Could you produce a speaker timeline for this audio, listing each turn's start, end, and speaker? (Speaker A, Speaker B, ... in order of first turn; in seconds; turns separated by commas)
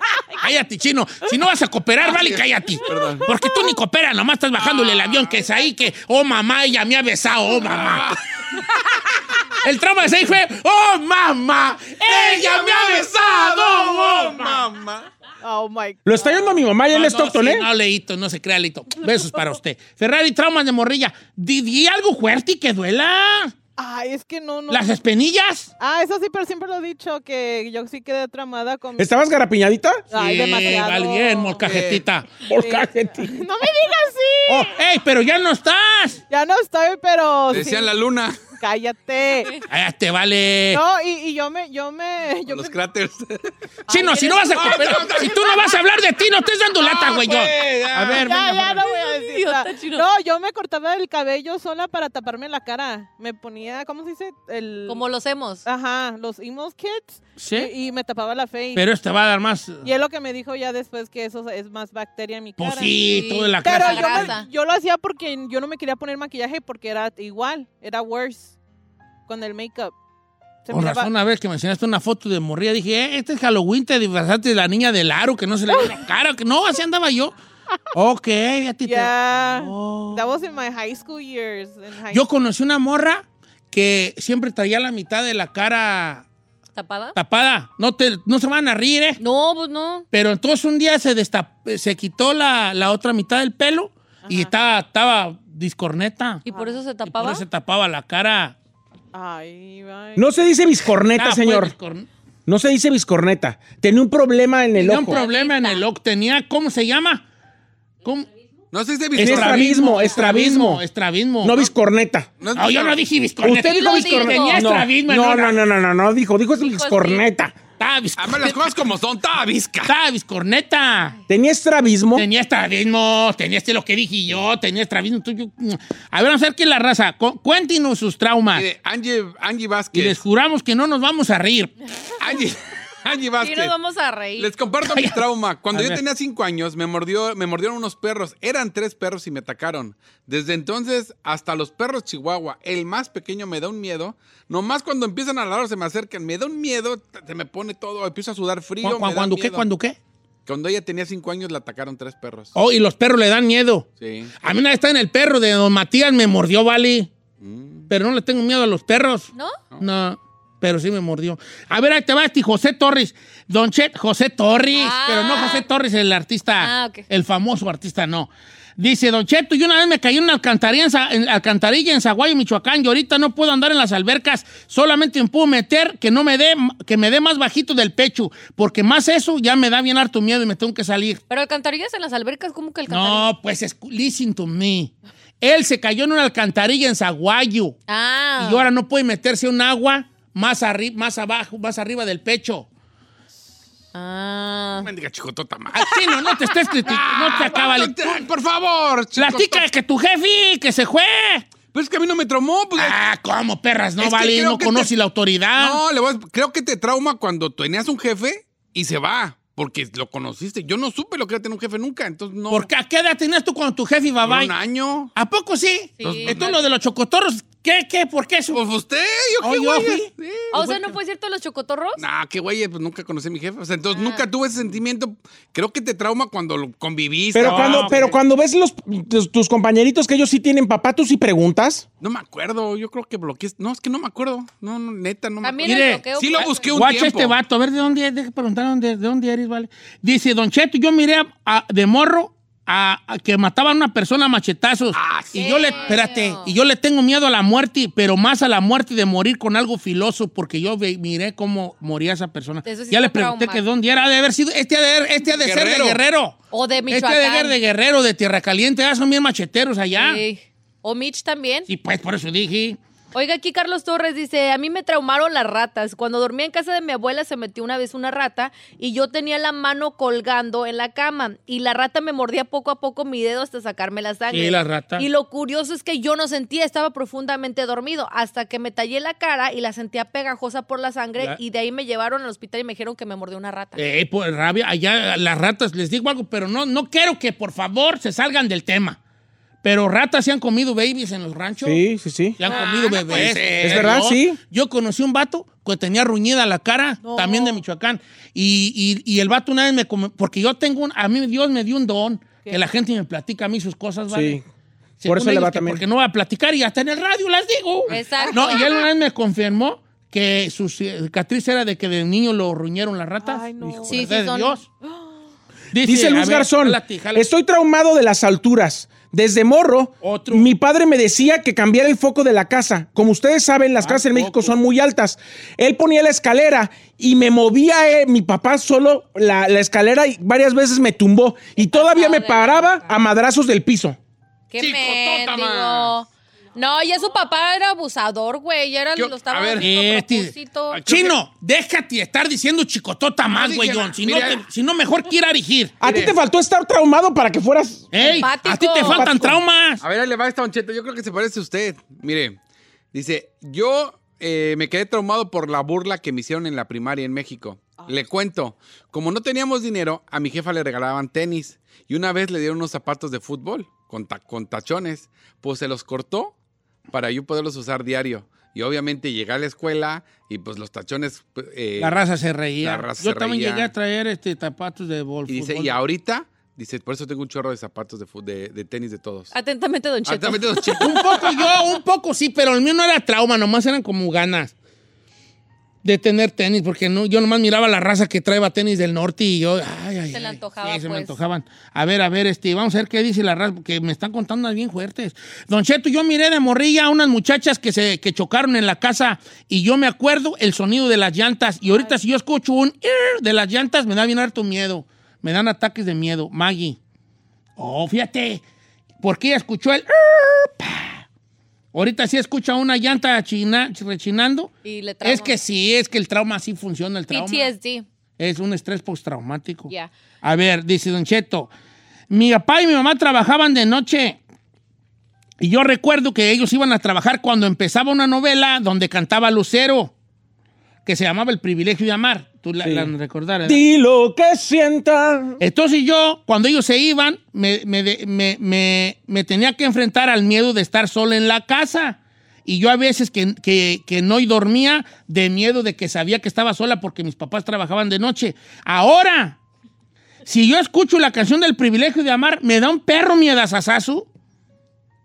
Speaker A: 0.4-8.2, Speaker B: 2.0-3.3, Speaker C: 3.1-3.3, Speaker B: 4.6-5.4, Speaker B: 7.5-8.2, Speaker A: 9.6-14.7, Speaker B: 12.0-15.1, Speaker C: 15.4-16.6, Speaker D: 16.1-17.7, Speaker A: 16.9-23.5, Speaker C: 23.8-24.9, Speaker A: 24.7-25.7, Speaker C: 25.8-29.1, Speaker D: 29.0-30.1, Speaker C: 30.1-31.7, Speaker A: 30.1-32.3, Speaker B: 31.6-32.0, Speaker D: 32.5-33.4, Speaker C: 32.5-34.7, Speaker A: 34.5-36.2, Speaker C: 36.3-37.9, Speaker B: 37.5-38.5, Speaker C: 38.6-39.6, Speaker A: 39.7-40.8, Speaker C: 40.7-42.8, Speaker B: 42.5-43.5, Speaker C: 43.9-44.8, Speaker A: 43.9-48.8, Speaker B: 44.5-45.8, Speaker B: 46.8-48.3, Speaker C: 48.2-55.0, Speaker E: 48.8-50.0, Speaker E: 54.9-55.6, Speaker C: 55.6-58.8, Speaker A: 57.4-57.7, Speaker A: 58.8-59.9, Speaker C: 59.8-63.1, Speaker A: 62.6-64.3, Speaker E: 63.0-64.5, Speaker C: 63.6-68.6, Speaker C: 69.3-69.9, Speaker C: 70.7-71.1, Speaker A: 70.7-77.3, Speaker A: 77.9-80.2, Speaker C: 78.9-82.2, Speaker A: 82.1-86.3, Speaker E: 86.7-87.2, Speaker A: 87.2-89.2, Speaker E: 89.2-90.1, Speaker A: 90.1-96.4, Speaker C: 94.2-94.5, Speaker E: 96.5-97.5, Speaker C: 96.5-96.8, Speaker A: 97.1-98.5, Speaker C: 99.1-100.3, Speaker D: 100.2-101.7, Speaker A: 101.1-102.1, Speaker D: 102.5-105.2, Speaker A: 104.8-107.2, Speaker E: 105.0-105.8, Speaker A: 108.0-108.3, Speaker B: 108.7-109.9, Speaker A: 109.2-111.7, Speaker D: 109.2-110.8, Speaker D: 111.4-112.3, Speaker B: 112.4-113.0, Speaker A: 112.5-115.6, Speaker D: 113.4-117.5, Speaker E: 113.6-114.6, Speaker E: 116.6-117.2, Speaker A: 117.8-118.7, Speaker B: 118.2-119.9, Speaker A: 119.9-121.2, Speaker D: 121.3-122.3, Speaker A: 122.2-128.7, Speaker B: 128.5-130.2, Speaker A: 129.9-131.8, Speaker B: 132.2-133.8, Speaker E: 133.4-134.5, Speaker B: 134.4-149.6, Speaker A: 134.8-136.0, Speaker A: 148.8-150.0, Speaker B: 150.5-152.5, Speaker A: 152.6-153.9, Speaker B: 154.0-154.3, Speaker A: 154.4-157.1, Speaker B: 157.4-157.9, Speaker A: 157.9-181.2, Speaker E: 159.3-159.6, Speaker E: 164.7-165.7, Speaker E: 166.6-167.1, Speaker E: 181.3-183.3, Speaker A: 182.9-187.8, Speaker E: 187.9-188.7, Speaker A: 188.4-192.7, Speaker E: 193.9-194.9, Speaker B: 194.8-199.7, Speaker A: 195.7-198.2, Speaker A: 199.2-201.5, Speaker B: 201.7-203.0, Speaker A: 202.8-205.8, Speaker B: 204.0-204.9, Speaker B: 205.6-212.7, Speaker A: 212.5-214.5, Speaker B: 214.2-215.1, Speaker A: 215.2-218.6, Speaker E: 216.0-216.6, Speaker B: 216.0-216.6, Speaker B: 218.5-220.9, Speaker A: 219.4-220.1, Speaker E: 220.5-222.0, Speaker B: 222.0-228.2, Speaker E: 223.9-224.2, Speaker D: 227.3-231.9, Speaker A: 227.4-228.1, Speaker B: 232.0-237.4, Speaker E: 235.4-236.7, Speaker A: 235.6-256.4, Speaker B: 244.9-246.0, Speaker E: 245.3-246.5, Speaker E: 252.7-253.6, Speaker B: 255.4-256.0, Speaker E: 256.5-257.6, Speaker A: 256.9-260.2, Speaker E: 259.9-261.7, Speaker A: 261.7-262.8, Speaker E: 263.1-283.8, Speaker A: 274.3-275.1, Speaker A: 283.8-289.0, Speaker A: 289.6-291.8, Speaker D: 291.6-292.4, Speaker A: 292.4-304.4, Speaker B: 292.5-294.0, Speaker D: 293.6-294.4, Speaker C: 297.0-297.6, Speaker D: 304.1-304.4, Speaker A: 305.0-314.6, Speaker D: 305.1-305.8, Speaker E: 307.9-308.7, Speaker B: 307.9-308.3, Speaker C: 313.2-314.1, Speaker E: 313.9-314.6, Speaker C: 314.8-315.2, Speaker A: 315.7-317.3, Speaker D: 315.8-334.0, Speaker A: 320.0-320.5, Speaker A: 323.8-324.6, Speaker E: 331.7-332.8, Speaker E: 334.5-340.8, Speaker B: 334.6-335.9, Speaker B: 338.9-339.7, Speaker A: 339.6-340.3, Speaker B: 340.7-341.1, Speaker A: 340.9-345.8, Speaker B: 343.3-344.4, Speaker D: 345.8-348.2, Speaker B: 345.8-346.2, Speaker A: 347.9-349.8, Speaker E: 348.0-349.1, Speaker D: 348.8-349.4, Speaker B: 349.8-352.4, Speaker B: 352.9-366.4, Speaker B: 366.9-372.0, Speaker A: 371.8-375.8, Speaker B: 372.6-373.7, Speaker B: 375.3-379.3, Speaker E: 379.3-380.9, Speaker B: 380.1-381.5, Speaker A: 380.8-384.5, Speaker A: 385.8-406.8, Speaker E: 390.1-391.1, Speaker A: 407.6-408.4, Speaker A: 409.0-411.0, Speaker A: 411.7-417.5, Speaker E: 414.6-415.3, Speaker E: 417.1-417.9, Speaker A: 418.2-419.7, Speaker A: 420.2-421.5, Speaker A: 422.1-424.2, Speaker A: 425.4-429.9, Speaker A: 430.9-433.6, Speaker D: 432.6-432.9, Speaker D: 433.4-435.4, Speaker A: 435.4-449.4, Speaker A: 450.3-454.1